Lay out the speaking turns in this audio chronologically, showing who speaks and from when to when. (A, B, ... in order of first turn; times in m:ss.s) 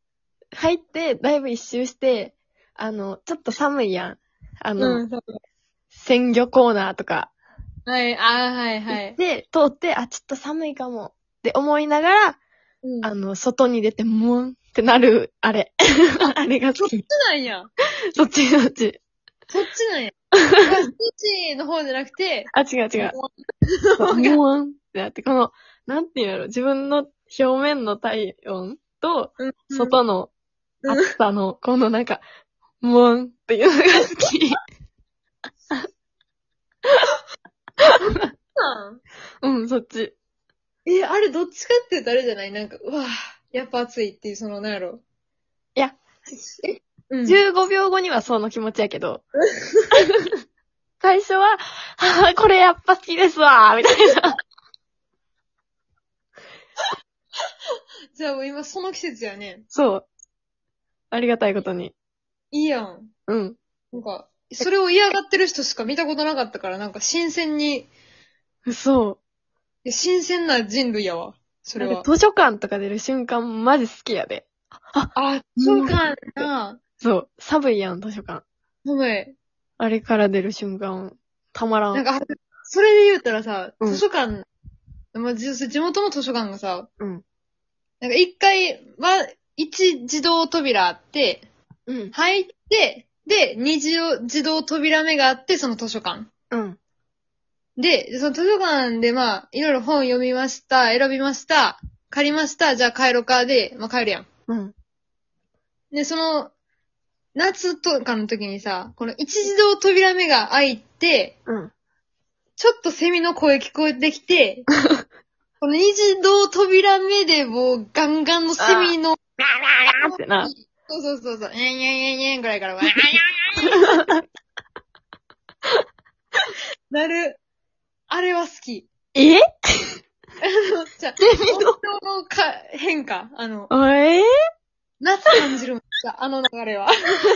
0:00.5-0:05.0 A
0:04.8-0:05.4 B
0:05.9-0:07.3 A
0:07.8-0:09.2 B
0:08.9-0:12.4 A
0:12.8-0:13.1 B
0:13.0-0:17.0 A
0:16.8-0:17.7 B
0:18.1-0:19.0 A
0:19.5-0:24.4 B
0:22.5-0:23.2 A
0:24.0-0:30.3 A
0:29.4-0:30.0 B
0:30.8-0:31.1 B
0:30.9-0:32.2 A
0:32.8-0:34.6 A
0:38.6-0:39.0 B
0:39.4-0:40.1 A
0:40.8-0:45.0 B
0:45.8-0:46.0 A
0:46.4-0:47.4 B
0:47.2-0:49.2 A
0:49.6-0:49.9 B
0:51.0-0:54.4 A
0:58.1-0:59.6 B
0:59.7-1:00.0 A
1:01.1-1:01.9 A
1:02.5-1:03.1 B
1:03.3-1:03.6 A
1:03.9-1:07.9 B
1:08.6-1:09.2 A
1:09.8-1:12.1 B
1:11.8-1:16.5 A
1:15.1-1:16.8 B
1:17.0-1:18.4 A
1:18.8-1:19.3 B
1:19.8-1:22.0 A
1:21.9-1:24.4 B
1:25.1-1:26.9 B
1:28.0-1:31.5 B
1:31.9-1:32.1 A
1:32.1-1:36.3 B
1:36.5-1:36.8 A
1:37.8-1:44.2 B
1:44.5-1:44.7 A
1:45.9-1:46.5 B
1:47.4-1:51.4 B
1:51.4-1:51.7 A
1:52.6-1:54.7 B
1:55.6-2:04.0 B
1:58.6-1:58.9 A
1:59.9-2:00.5 A
2:03.6-2:04.2 A
2:06.9-2:07.4 B
2:08.1-2:08.9 B
2:09.1-2:10.0 A
2:10.4-2:13.7 B
2:11.2-2:11.8 A
2:13.7-2:14.3 A
2:15.0-2:17.1 B